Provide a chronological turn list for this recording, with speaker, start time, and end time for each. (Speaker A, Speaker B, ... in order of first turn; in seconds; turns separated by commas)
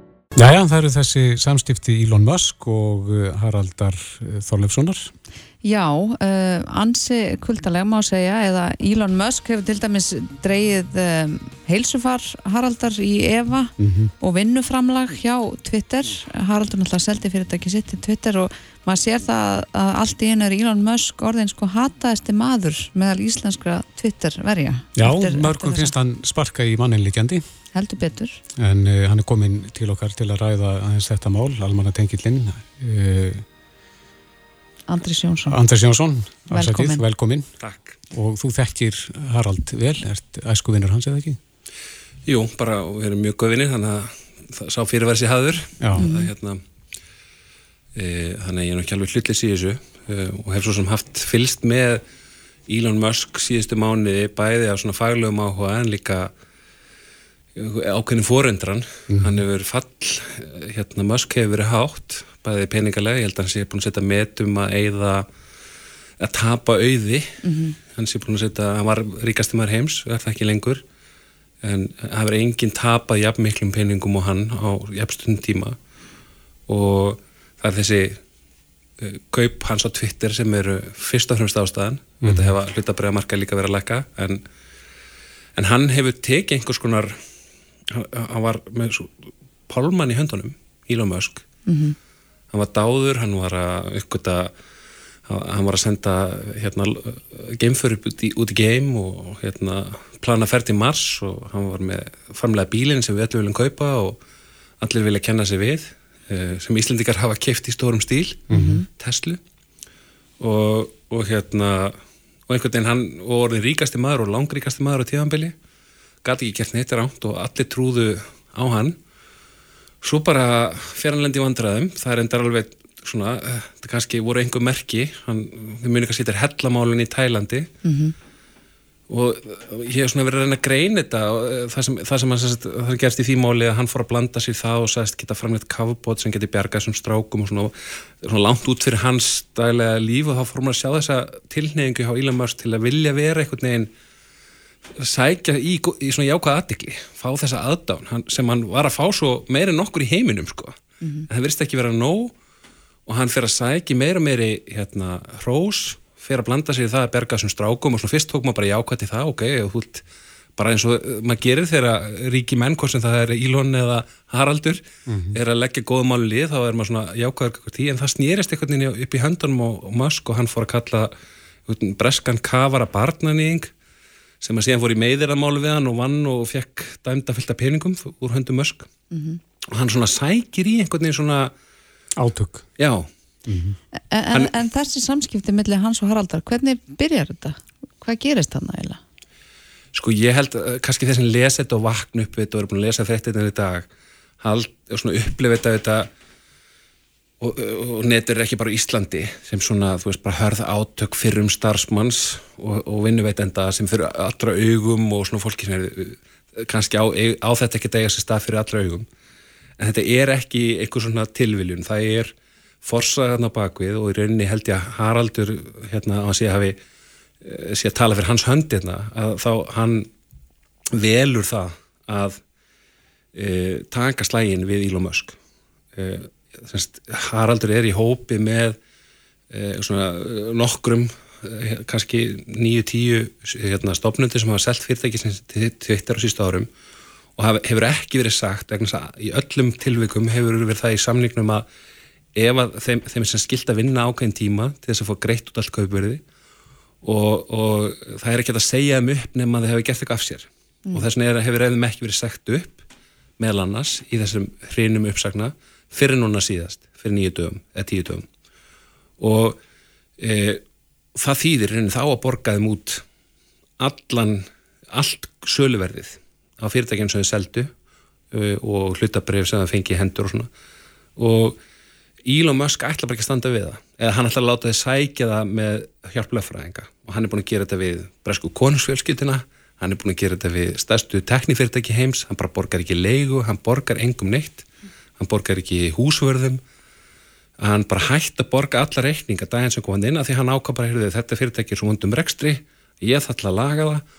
Speaker A: 0.3-5.1, Speaker B: 5.6-25.9, Speaker A: 13.8-14.1, Speaker A: 24.9-27.4, Speaker B: 27.7-28.4, Speaker A: 28.6-33.4, Speaker B: 34.9-35.6, Speaker A: 35.5-37.5, Speaker B: 36.5-37.0, Speaker C: 37.6-37.9, Speaker A: 38.1-41.4, Speaker C: 42.2-46.6, Speaker A: 45.8-46.1, Speaker B: 46.0-46.3, Speaker C: 47.9-52.0, Speaker C: 52.7-56.3, Speaker C: 57.5-65.2, Speaker C: 66.2-70.8, Speaker B: 67.4-67.7, Speaker C: 71.6-75.8, Speaker C: 76.7-78.2, Speaker C: 79.0-84.4, Speaker A: 82.2-82.5, Speaker C: 85.5-87.1, Speaker C: 87.9-91.4, Speaker B: 91.7-92.0, Speaker C: 92.5-94.5, Speaker C: 95.3-104.2, Speaker C: 104.8-109.4, Speaker A: 108.5-108.8, Speaker B: 108.5-108.8, Speaker C: 110.4-115.5, Speaker C: 116.2-119.0, Speaker C: 120.0-127.7, Speaker B: 127.8-128.1, Speaker C: 129.1-143.9, Speaker C: 144.9-152.3, Speaker C: 153.1-160.0, Speaker C: 160.6-171.1, Speaker A: 165.1-165.3, Speaker C: 171.7-173.7, Speaker C: 174.4-178.9, Speaker B: 179.1-179.4, Speaker C: 179.7-181.5, Speaker A: 182.2-182.7, Speaker C: 182.8-183.1, Speaker A: 183.4-183.8, Speaker B: 184.1-189.0, Speaker C: 189.9-193.9, Speaker C: 194.4-196.1, Speaker C: 197.4-209.1, Speaker C: 209.8-212.3, Speaker C: 212.8-216.8, Speaker C: 217.4-220.1, Speaker C: 220.9-222.4, Speaker C: 223.3-225.4, Speaker C: 225.9-228.8, Speaker C: 229.5-236.7, Speaker C: 237.4-241.7, Speaker C: 242.3-246.2, Speaker C: 247.0-252.8, Speaker C: 253.4-258.2, Speaker C: 259.2-259.6, Speaker C: 260.2-260.6, Speaker C: 261.1-263.0, Speaker C: 263.8-267.7, Speaker C: 268.3-270.5, Speaker C: 271.2-271.6, Speaker C: 272.2-284.6, Speaker C: 285.2-286.6, Speaker C: 287.6-294.0